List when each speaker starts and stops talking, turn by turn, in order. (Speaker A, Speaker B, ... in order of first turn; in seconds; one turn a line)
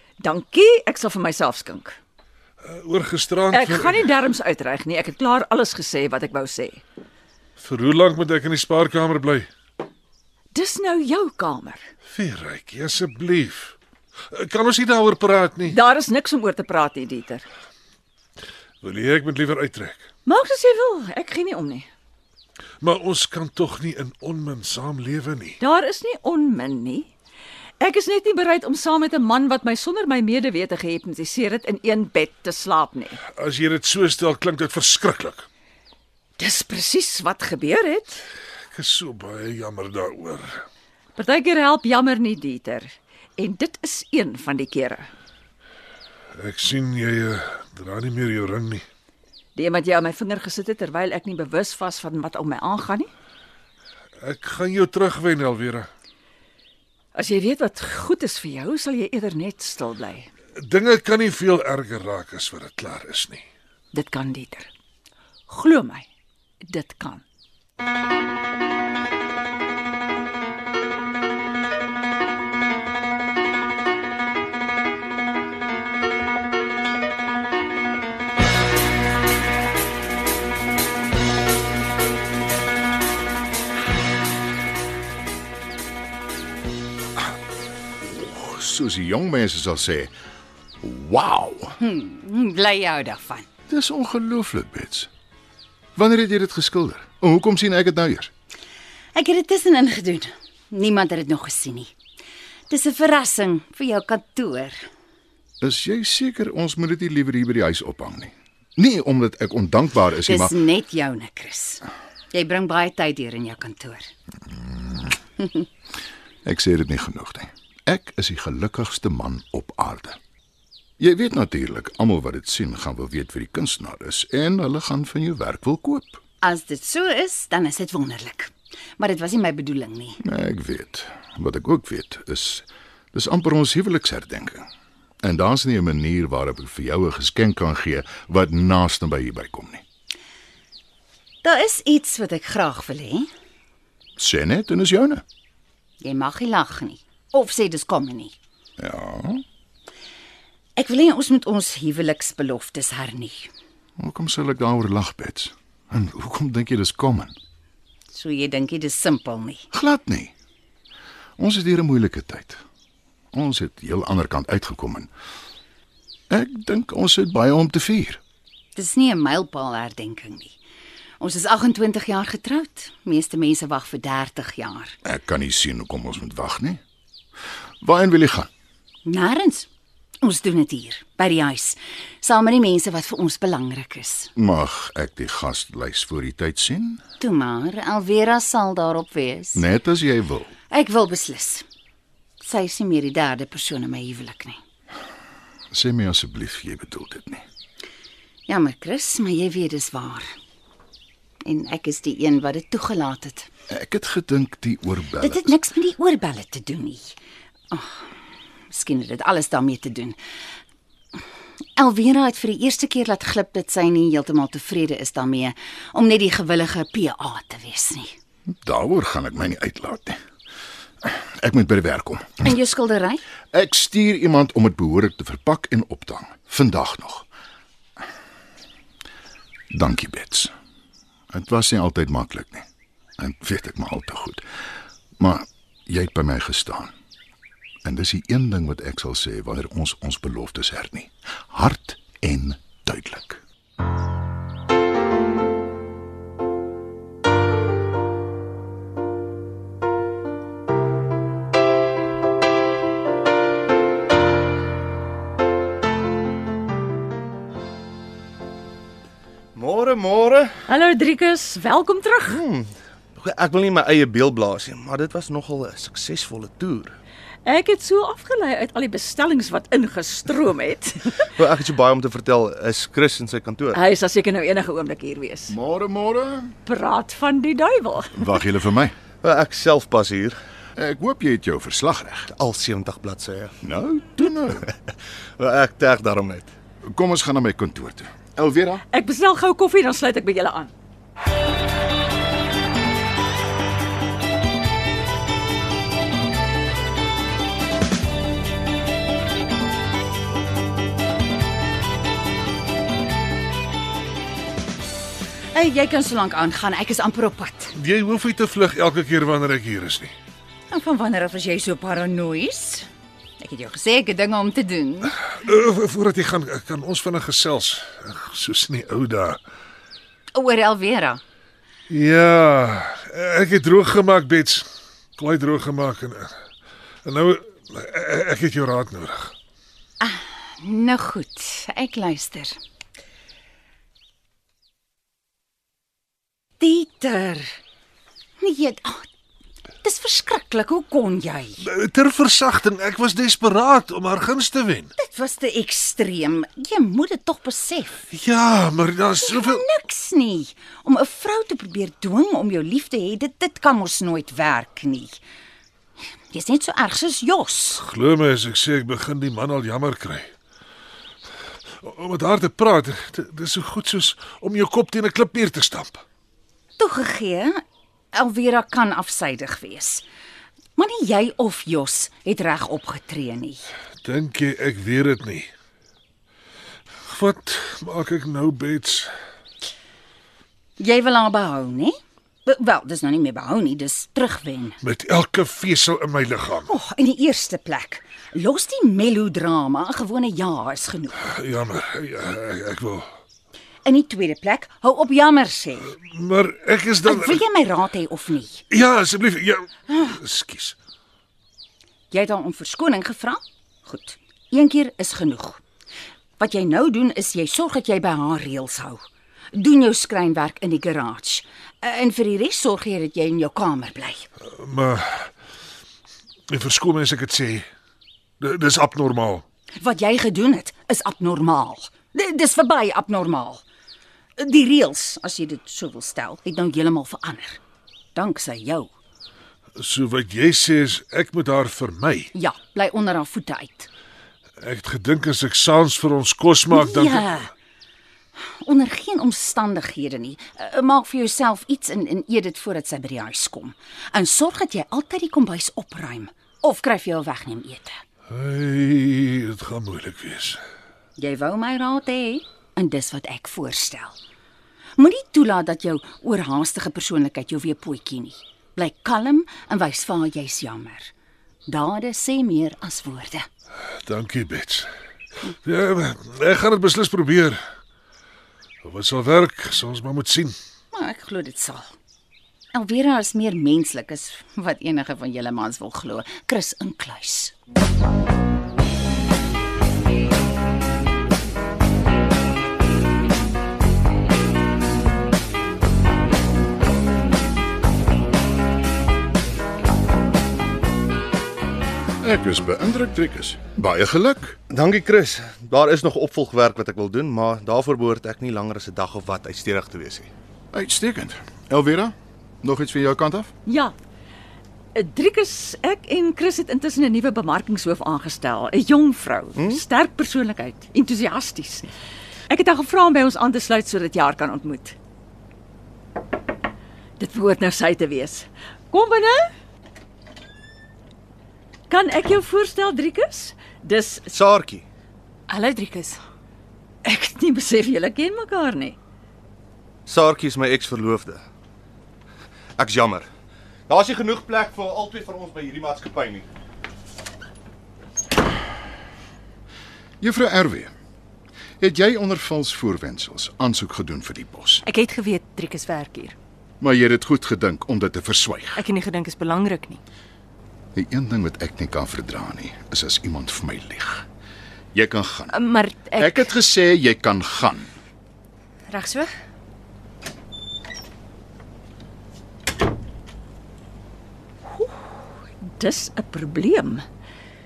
Speaker A: 0.2-2.0
Speaker B: 2.6-4.1
Speaker A: 3.5-6.8
Speaker B: 7.6-9.5
Speaker A: 10.5-11.8
Speaker B: 12.1-13.7
Speaker B: 14.3-15.8
Speaker A: 15.7-17.4
Speaker B: 18.8-20.1
Speaker A: 20.2-21.9
Speaker B: 22.8-25.6
Speaker A: 25.6-27.1
Speaker A: 27.8-33.2
Speaker B: 33.3-35.5
Speaker A: 36.4-38.2
Speaker B: 38.7-40.6
Speaker A: 41.1-45.1
Speaker B: 46.4-48.9
Speaker A: 49.5-53.1
Speaker B: 54.2-55.9
Speaker A: 57.1-60.3
Speaker B: 60.6-63.4
Speaker A: 63.9-64.7
Speaker A: 65.5-66.1
Speaker A: 66.7-67.2
Speaker C: 88.0-90.1
Speaker C: 90.8-91.7
Speaker D: 91.8-93.5
Speaker C: 93.7-95.1
Speaker C: 96.0-98.3
Speaker D: 99.1-101.9
Speaker D: 102.7-104.9
Speaker C: 105.6-110.5
Speaker D: 110.2-114.1
Speaker C: 116.4-120.2
Speaker C: 121.0-126.2
Speaker D: 126.4-130.2
Speaker C: 130.2-134.7
Speaker C: 135.2-139.8
Speaker D: 141.4-143.3
Speaker C: 144.2-145.2
Speaker D: 146.0-148.3
Speaker C: 148.8-149.4
Speaker D: 150.8-153.5
Speaker C: 154.0-157.3
Speaker D: 158.1-159.6
Speaker C: 159.7-160.3
Speaker C: 161.4-162.6
Speaker C: 163.3-165.1
Speaker C: 166.3-168.2
Speaker D: 168.8-170.6
Speaker D: 171.2-174.9
Speaker C: 175.0-176.8
Speaker C: 177.8-178.5
Speaker D: 179.0-179.7
Speaker D: 180.2-184.3
Speaker C: 184.4-187.0
Speaker D: 187.2-189.6
Speaker C: 189.6-190.5
Speaker D: 190.7-191.6
Speaker D: 192.4-194.6
Speaker C: 195.7-197.4
Speaker D: 198.5-200.3
Speaker D: 201.4-203.5
Speaker C: 203.7-205.6
Speaker D: 205.2-207.1
Speaker D: 207.7-208.0
Speaker D: 208.7-210.2
Speaker D: 211.8-218.1
Speaker C: 218.6-220.2
Speaker C: 221.0-222.5
Speaker D: 222.4-223.2
Speaker C: 223.5-227.3
Speaker C: 229.7-230.5
Speaker C: 231.3-232.6
Speaker C: 233.2-234.4
Speaker C: 235.2-236.9
Speaker C: 237.8-243.4
Speaker E: 259.5-260.5
Speaker A: 260.7-262.4
Speaker E: 262.3-266.9
Speaker A: 267.4-271.1
Speaker E: 271.4-273.8
Speaker A: 273.7-275.5
Speaker C: 275.5-276.5
Speaker A: 276.6-278.3
Speaker C: 278.1-278.9
Speaker E: 279.2-280.3
Speaker C: 280.8-282.3
Speaker E: 282.3-283.5
Speaker C: 283.6-284.6
Speaker E: 284.6-286.5
Speaker C: 286.8-288.8
Speaker A: 288.9-290.7
Speaker D: 305.5-307.7
Speaker B: 307.8-310.1
Speaker D: 310.7-312.9
Speaker D: 313.4-315.2
Speaker B: 315.4-319.4
Speaker D: 320.3-321.2
Speaker B: 321.9-324.6
Speaker B: 325.2-326.3
Speaker B: 327.0-329.3
Speaker D: 330.0-332.5
Speaker D: 336.6-337.6
Speaker D: 338.4-339.1
Speaker D: 339.8-341.6
Speaker B: 341.6-344.9
Speaker D: 345.0-348.0
Speaker B: 348.1-349.6
Speaker D: 349.2-355.2
Speaker D: 356.3-357.8
Speaker B: 357.8-360.3
Speaker B: 361.8-366.0
Speaker D: 366.8-367.6
Speaker D: 368.1-370.0
Speaker D: 370.8-373.6
Speaker B: 374.0-375.5
Speaker B: 377.1-379.1
Speaker D: 380.8-381.9
Speaker D: 382.4-384.8
Speaker B: 384.8-386.7
Speaker D: 386.6-391.3
Speaker B: 391.2-393.1
Speaker D: 393.8-395.9
Speaker B: 395.9-397.4
Speaker D: 397.0-398.6
Speaker B: 398.7-400.7
Speaker D: 402.1-405.6
Speaker D: 406.4-409.0
Speaker D: 409.5-414.3
Speaker B: 414.6-415.3
Speaker B: 416.5-417.6
Speaker B: 418.4-419.4
Speaker D: 419.8-423.6
Speaker D: 424.4-427.6
Speaker D: 428.1-428.9
Speaker B: 429.8-432.3
Speaker D: 432.3-433.9
Speaker B: 434.6-437.4
Speaker D: 436.7-437.5
Speaker D: 438.6-448.0
Speaker B: 448.3-450.6
Speaker D: 451.2-454.2
Speaker D: 455.0-461.1
Speaker D: 461.7-463.4
Speaker B: 464.0-464.9
Speaker B: 465.6-467.6
Speaker B: 468.8-470.6
Speaker D: 470.9-471.9
Speaker D: 472.7-477.5
Speaker C: 492.2-494.6
Speaker E: 494.7-500.3
Speaker C: 500.7-503.5
Speaker A: 503.6-503.9
Speaker A: 504.9-511.9
Speaker E: 509.5-509.8
Speaker A: 512.5-515.0
Speaker A: 517.2-519.5
Speaker A: 521.9-524.3
Speaker E: 524.3-524.8
Speaker F: 525.5-526.2
Speaker A: 527.0-529.0
Speaker E: 530.0-531.4
Speaker E: 532.8-533.3
Speaker E: 533.9-536.5
Speaker C: 540.2-540.9
Speaker C: 541.8-544.8
Speaker F: 544.8-546.3
Speaker C: 546.8-548.8
Speaker F: 548.8-550.0
Speaker C: 550.9-554.2
Speaker C: 554.9-555.6
Speaker F: 555.5-556.5
Speaker C: 556.1-557.9
Speaker F: 558.9-559.3
Speaker A: 565.7-567.0